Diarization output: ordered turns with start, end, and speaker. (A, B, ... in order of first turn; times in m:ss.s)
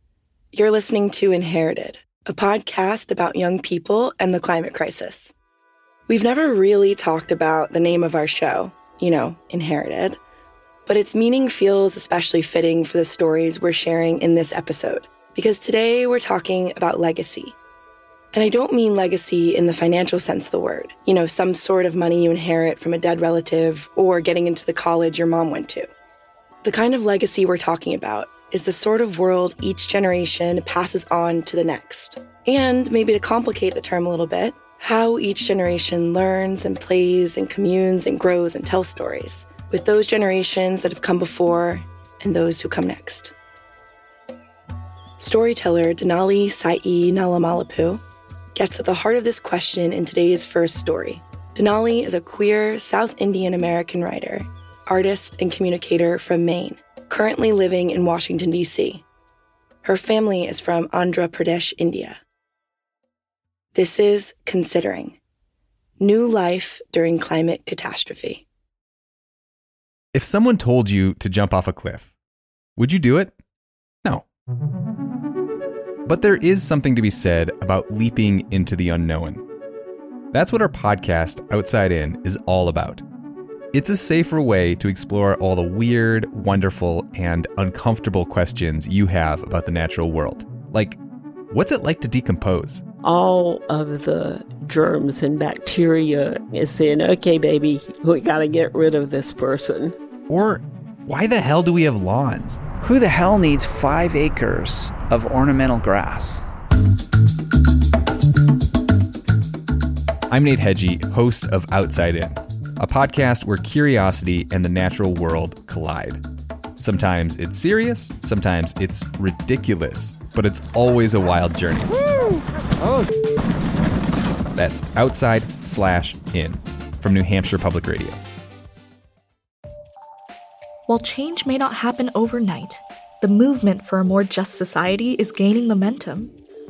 0:00.5-0:05.3 A
0:06.1-0:10.2 A
0:10.9-0:17.6 A
0:18.3-0:25.9 A
0:26.6-0:43.3 A
0:45.2-0:48.0 A
0:48.6-0:59.0 A
0:59.8-1:02.2 A
1:03.7-1:05.2 A
1:06.0-1:08.4 A
1:10.1-1:12.1 B
1:12.8-1:13.4 B
1:16.0-1:19.4 B
1:20.3-1:23.0 B
1:23.7-1:31.0 B
1:31.5-1:32.8 B
1:33.0-1:40.0 C
1:40.3-1:42.6 B
1:42.8-1:46.4 D
1:50.3-1:56.2 B
1:56.8-2:02.0 B
2:04.6-2:08.2 B
2:10.9-2:16.3 E